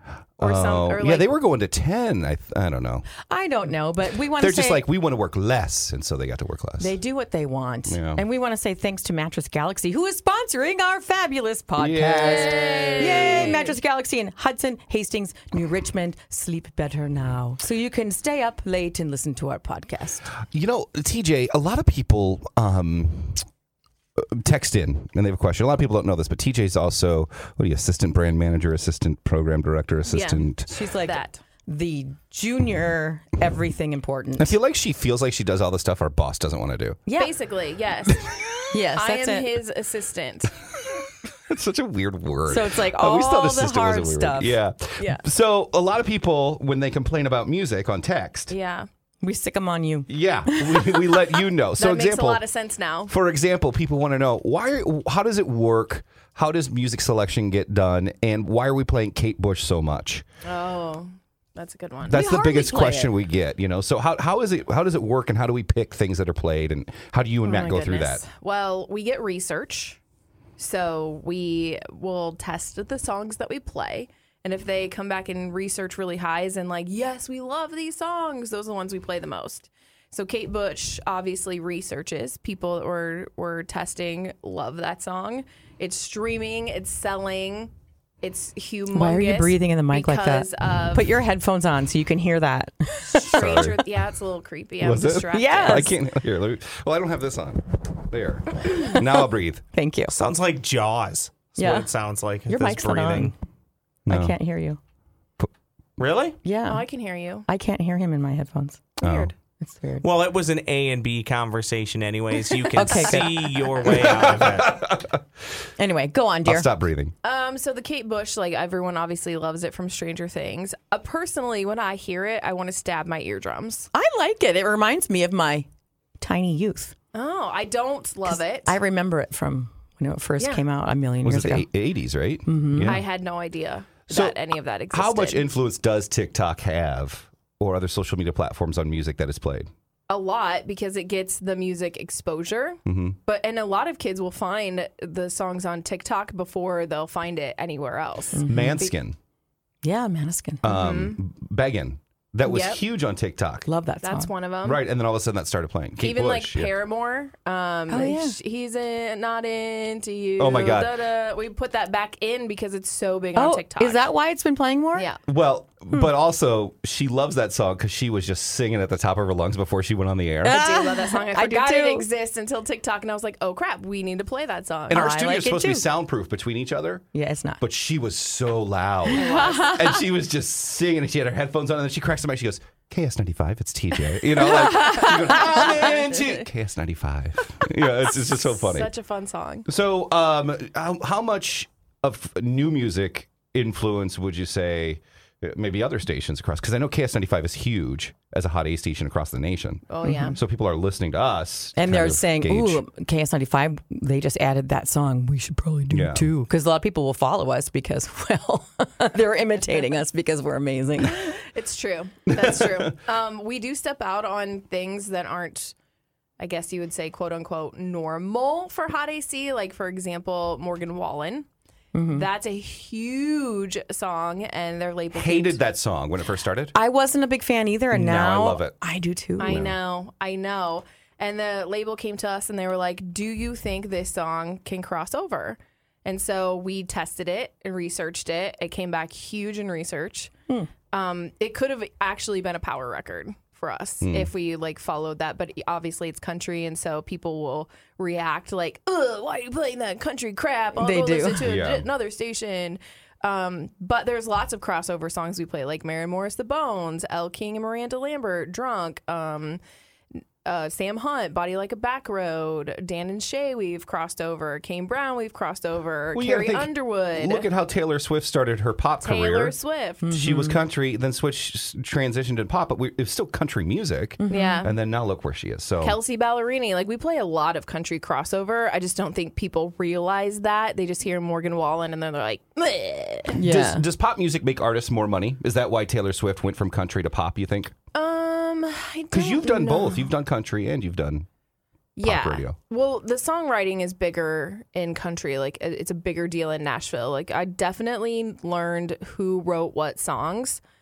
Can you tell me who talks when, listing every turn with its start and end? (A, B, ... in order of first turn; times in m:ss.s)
0:00.4-0:03.1 A
0:00.4-0:01.3 B
0:03.2-0:04.9 C
0:04.3-0:06.9 A
0:06.8-0:20.3 C
0:07.9-0:08.2 A
0:11.8-0:13.6 A
0:12.3-0:13.7 B
0:20.5-0:23.5 A
0:24.2-0:30.7 A
0:30.1-0:30.5 B
0:30.7-0:34.6 C
0:31.0-0:31.4 B
0:34.4-0:37.0 A
0:37.1-0:37.3 C
0:37.2-0:38.3 B
0:38.7-0:39.5 C
0:39.0-0:40.5 B
0:41.5-0:48.5 A
0:42.5-0:44.6 C
0:48.5-0:48.9 B
0:49.2-0:51.4 C
0:50.1-0:52.4 A
0:51.8-0:53.1 B
0:53.1-1:00.2 A
1:00.4-1:02.2 B
1:02.1-1:08.2 A
1:02.1-1:03.2 C
1:07.4-1:10.0 B
1:10.6-1:27.7 B
1:28.2-1:31.1 B
1:28.9-1:33.7 C
1:33.1-1:35.9 B
1:33.2-1:33.7 A
1:34.8-1:39.6 A
1:35.3-1:36.0 C
1:38.9-1:39.2 C
1:39.7-1:40.1 C
1:40.1-1:43.3 D
1:41.6-1:41.9 C
1:42.5-1:43.3 C
1:44.1-1:44.4 A
1:44.1-1:44.8 C
1:46.0-1:46.4 D
1:46.4-1:46.8 C
1:46.7-1:47.5 B
1:47.5-1:48.9 C
1:49.0-1:49.3 B
1:49.0-1:49.3 A
1:49.6-1:50.1 C
1:50.0-1:54.8 D
1:52.7-1:53.8 C
1:53.9-1:55.2 A
1:55.8-1:56.7 C
1:56.4-1:57.2 A
1:57.2-2:03.9 B
2:03.9-2:05.7 C
2:06.2-2:06.9 C
2:07.1-2:08.8 B
2:08.3-2:11.7 C
2:11.2-2:13.0 A
2:12.4-2:13.0 C
2:12.8-2:15.5 B
2:14.1-2:14.4 A
2:14.9-2:19.7 A
2:20.1-2:28.9 B
2:22.9-2:23.2 A
2:28.3-2:28.9 C
2:28.5-2:29.2 A
2:29.8-2:30.7 C
2:30.6-2:33.7 A
2:30.6-2:31.2 B
2:32.4-2:32.8 B
2:33.7-2:34.3 C
2:34.0-2:34.8 B
2:34.6-2:36.7 A
2:36.0-2:44.0 B
2:37.9-2:38.4 C
2:40.4-2:41.0 A
2:43.4-2:45.1 C
2:44.9-2:45.2 B
2:45.3-2:50.6 A
2:50.4-2:52.1 C
2:50.4-2:55.1 B
2:54.9-2:57.0 A
2:54.9-2:55.9 C
2:57.1-2:57.6 C
2:57.6-3:08.9 A
2:59.1-2:59.9 C
2:59.1-2:59.9 B
3:04.4-3:06.4 B
3:08.1-3:09.7 B
3:09.7-3:22.8 A
3:19.9-3:20.4 B
3:20.0-3:20.4 C
3:21.8-3:31.4 C
3:25.9-3:26.3 A
3:31.0-3:35.8 B
3:32.3-3:33.0 A
3:36.4-3:41.5 B
3:41.9-3:42.3 C
3:42.1-3:45.6 B
3:45.1-3:46.8 A
3:46.7-3:49.6 C
3:47.9-3:48.8 A
3:49.4-4:00.3 B
3:49.4-3:49.8 A
4:00.9-4:19.6 B
4:04.0-4:04.3 A
4:10.8-4:11.5 C
4:11.4-4:11.9 A
4:20.4-4:27.5 B
4:26.1-4:29.6 A
4:29.0-4:30.1 B
4:30.0-4:30.6 C
4:30.1-4:36.0 A
4:34.2-4:34.7 C
4:34.3-4:34.7 B
4:35.8-4:43.4 B
4:43.3-4:43.8 C
4:43.4-4:47.7 A
4:47.9-4:50.1 B
4:49.1-4:51.3 A
4:52.0-5:00.6 B
4:52.0-4:52.6 A